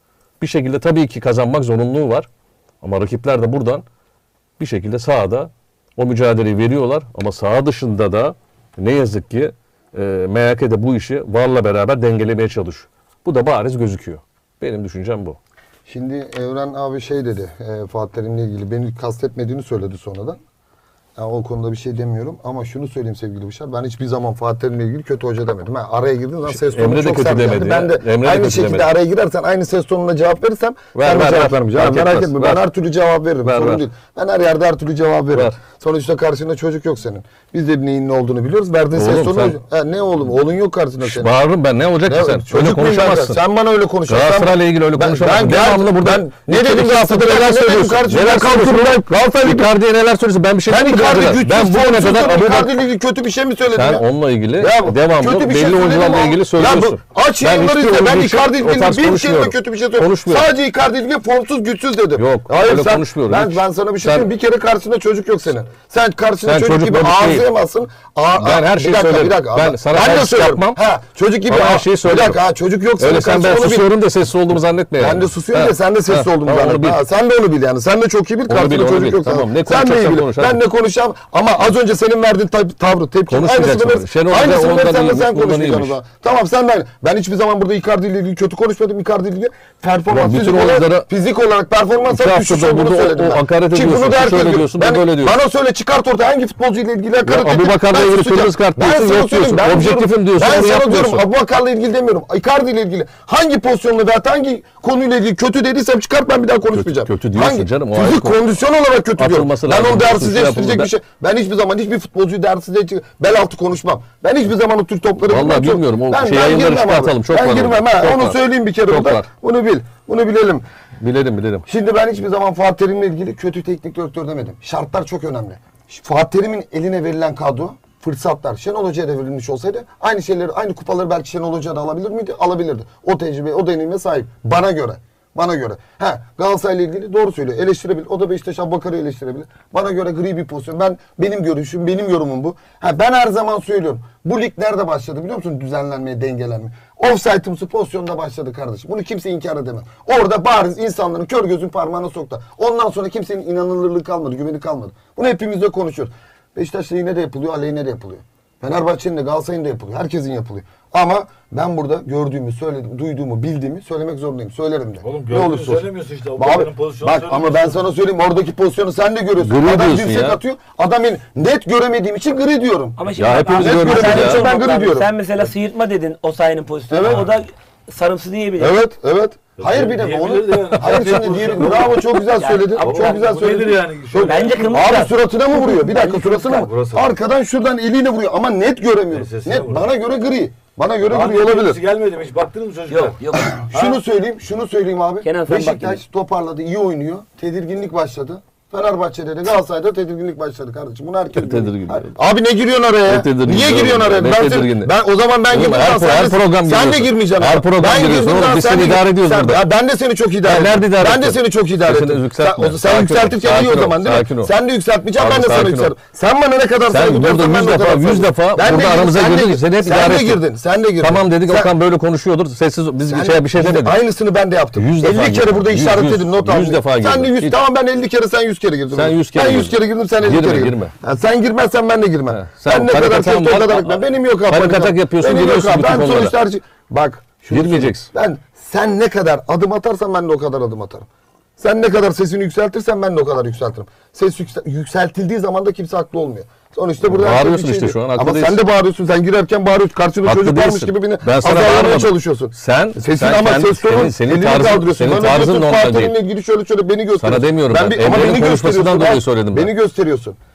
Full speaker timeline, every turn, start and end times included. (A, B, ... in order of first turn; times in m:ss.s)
0:00.4-0:02.3 A
0:02.8-0:03.8 A
0:04.6-0:15.4 A
0:15.9-0:20.4 B
0:21.2-0:41.3 B
0:26.5-0:28.9 A
0:30.9-0:32.6 A
0:33.4-0:33.8 A
0:38.9-0:39.6 A
0:41.0-0:43.4 A
0:42.0-0:49.7 B
0:44.1-0:52.8 A
0:50.7-1:13.9 B
0:53.7-1:00.5 A
1:02.2-1:04.3 A
1:06.4-1:07.5 A
1:08.4-1:10.8 A
1:11.5-1:12.4 A
1:13.0-1:17.0 A
1:15.0-2:00.6 B
1:18.5-1:20.6 A
1:23.3-1:26.0 A
1:30.1-1:31.1 A
1:32.1-1:35.4 A
1:37.2-1:41.2 A
1:46.7-1:48.4 A
1:49.2-1:50.9 A
1:55.3-1:59.2 A
2:01.0-2:01.6 A
2:01.7-2:53.0 B
2:45.0-2:47.8 C
2:49.4-2:50.4 A
2:53.0-2:58.8 D
2:53.2-2:54.5 A
2:53.5-2:55.1 B
2:56.9-2:57.3 B
2:58.6-3:11.8 B
2:59.6-3:02.0 C
3:02.0-3:03.4 D
3:02.8-3:04.8 C
3:04.2-3:06.7 D
3:06.0-3:07.2 C
3:09.1-3:09.9 C
3:11.1-3:14.0 C
3:12.9-3:13.6 D
3:13.4-3:41.7 B
3:15.2-3:16.0 D
3:21.3-3:22.1 A
3:23.1-3:24.9 A
3:25.5-3:29.6 A
3:30.4-3:34.5 A
3:35.2-3:35.9 A
3:36.9-3:40.4 A
3:41.0-3:44.0 A
3:43.1-4:01.1 B
3:44.8-3:47.6 A
3:48.9-3:50.9 A
3:52.3-3:56.4 A
3:57.5-3:58.1 A
4:01.6-4:20.4 B
4:07.0-4:08.6 A
4:10.2-4:16.2 A
4:17.2-4:19.7 A